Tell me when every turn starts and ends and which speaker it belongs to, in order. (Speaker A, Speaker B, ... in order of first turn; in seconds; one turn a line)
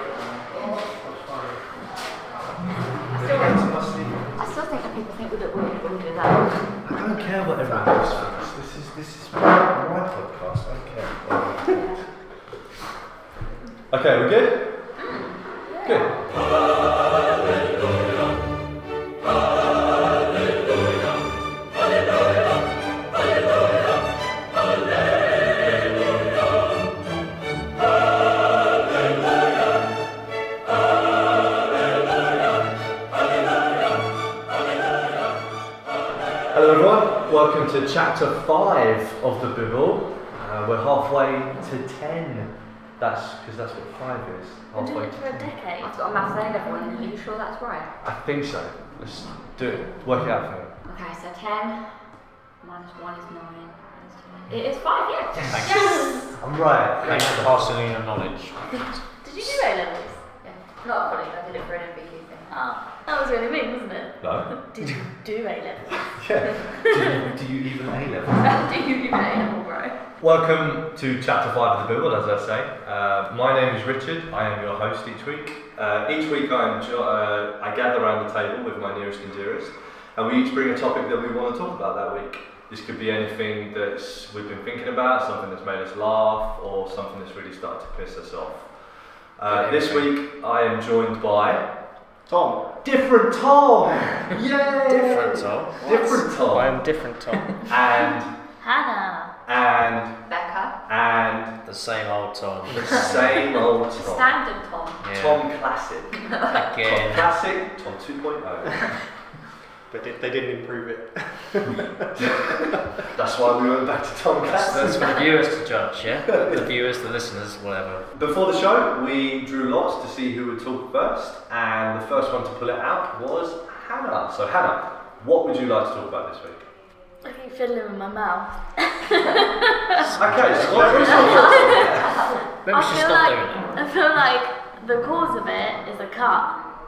Speaker A: 0.6-1.6
Speaker A: 3.1-4.3
Speaker B: 3.1-3.7
Speaker B: 4.4-6.8
Speaker A: 6.8-12.1
Speaker A: 13.9-14.9
Speaker B: 15.0-15.4
Speaker C: 15.7-16.1
Speaker A: 15.8-16.3
Speaker A: 36.5-45.6
Speaker C: 44.8-46.0
Speaker B: 45.8-47.9
Speaker A: 48.0-50.8
Speaker B: 50.8-56.3
Speaker A: 55.4-57.9
Speaker D: 55.5-56.1
Speaker C: 55.7-56.3
Speaker D: 57.0-59.0
Speaker C: 59.2-60.2
Speaker B: 60.4-62.6
Speaker C: 62.5-66.1
Speaker A: 64.2-65.0
Speaker A: 66.1-68.5
Speaker B: 68.4-70.0
Speaker A: 70.2-88.7
Speaker A: 89.4-91.7
Speaker D: 89.5-90.1
Speaker E: 92.3-92.7
Speaker A: 92.8-96.8
Speaker D: 94.8-96.0
Speaker E: 95.9-97.7
Speaker A: 97.6-98.3
Speaker C: 98.6-99.3
Speaker A: 99.5-100.2
Speaker B: 100.3-100.8
Speaker A: 100.9-101.6
Speaker D: 101.7-103.6
Speaker A: 102.7-104.4
Speaker B: 103.6-105.0
Speaker D: 105.0-105.5
Speaker A: 105.0-106.3
Speaker B: 106.2-106.7
Speaker D: 106.5-107.3
Speaker A: 106.8-109.0
Speaker E: 109.9-112.3
Speaker A: 112.1-115.2
Speaker D: 114.5-118.1
Speaker A: 116.3-116.6
Speaker A: 118.1-126.7
Speaker C: 127.2-130.1
Speaker D: 130.0-131.8
Speaker A: 130.2-132.3
Speaker C: 130.9-132.1
Speaker B: 130.9-132.4
Speaker D: 132.6-133.8
Speaker C: 132.7-136.6